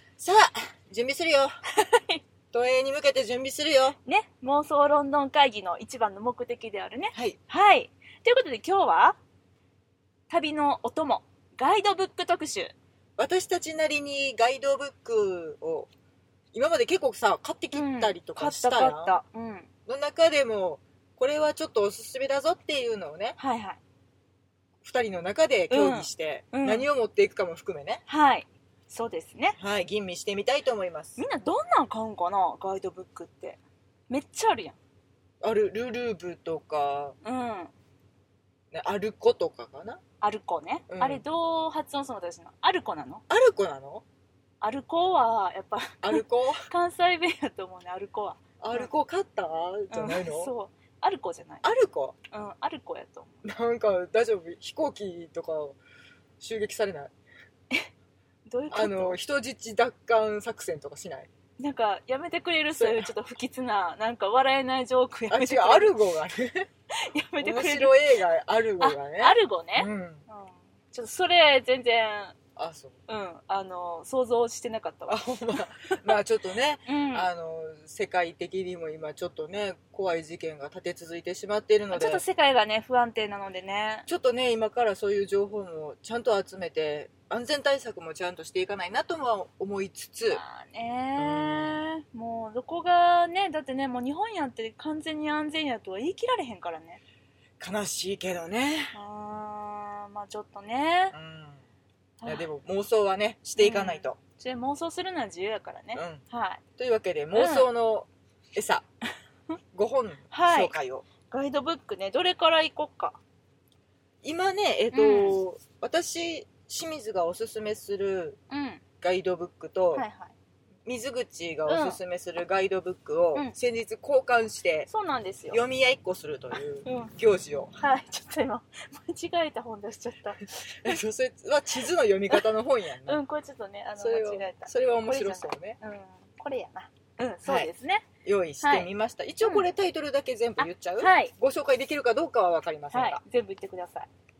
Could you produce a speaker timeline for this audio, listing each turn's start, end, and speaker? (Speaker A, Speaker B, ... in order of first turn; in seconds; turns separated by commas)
Speaker A: 0.2-1.6, Speaker B: 1.7-2.2, Speaker A: 2.5-4.0, Speaker B: 4.0-9.2, Speaker B: 10.3-12.7, Speaker A: 13.2-15.9, Speaker A: 16.5-19.2, Speaker B: 17.7-19.7, Speaker A: 19.9-23.4, Speaker B: 23.4-23.8, Speaker A: 24.8-28.0, Speaker B: 25.7-26.9, Speaker B: 28.1-29.6, Speaker A: 29.6-31.2, Speaker B: 31.2-34.8, Speaker A: 35.4-37.2, Speaker B: 37.2-37.7, Speaker A: 38.7-40.0, Speaker B: 40.2-43.2, Speaker A: 40.9-41.2, Speaker A: 43.3-44.0, Speaker B: 44.6-48.9, Speaker A: 46.0-46.7, Speaker A: 48.6-50.5, Speaker B: 49.9-51.7, Speaker A: 51.6-52.1, Speaker B: 52.3-53.5, Speaker A: 53.4-55.8, Speaker A: 56.4-57.1, Speaker B: 58.5-59.2, Speaker A: 58.7-61.3, Speaker B: 61.6-66.0, Speaker A: 62.8-63.1, Speaker A: 65.3-66.7, Speaker B: 66.9-68.0, Speaker A: 67.4-70.2, Speaker B: 68.8-72.4, Speaker A: 72.6-73.0, Speaker B: 73.1-76.1, Speaker A: 75.1-82.2, Speaker B: 76.9-77.3, Speaker B: 81.9-84.1, Speaker A: 84.1-90.4, Speaker B: 90.3-97.0, Speaker A: 91.2-91.8, Speaker A: 97.6-99.0, Speaker B: 98.9-101.2, Speaker A: 101.1-101.6, Speaker B: 102.2-102.5, Speaker A: 102.2-104.2, Speaker B: 103.6-106.6, Speaker A: 106.0-106.2, Speaker A: 106.8-108.8, Speaker B: 107.3-107.7, Speaker A: 109.7-111.0, Speaker B: 110.3-110.7, Speaker B: 111.3-113.2, Speaker A: 114.2-118.4, Speaker B: 114.9-115.4, Speaker B: 118.5-118.8, Speaker A: 119.0-120.0, Speaker B: 119.9-120.3, Speaker A: 120.9-124.9, Speaker B: 121.7-122.0, Speaker B: 124.9-125.6, Speaker A: 125.5-127.8, Speaker B: 126.8-127.1, Speaker B: 127.8-131.0, Speaker A: 130.8-133.2, Speaker B: 133.0-138.1, Speaker A: 134.0-135.8, Speaker A: 137.4-137.7, Speaker A: 138.2-143.2, Speaker B: 138.6-138.9, Speaker B: 140.6-141.3, Speaker B: 142.9-144.1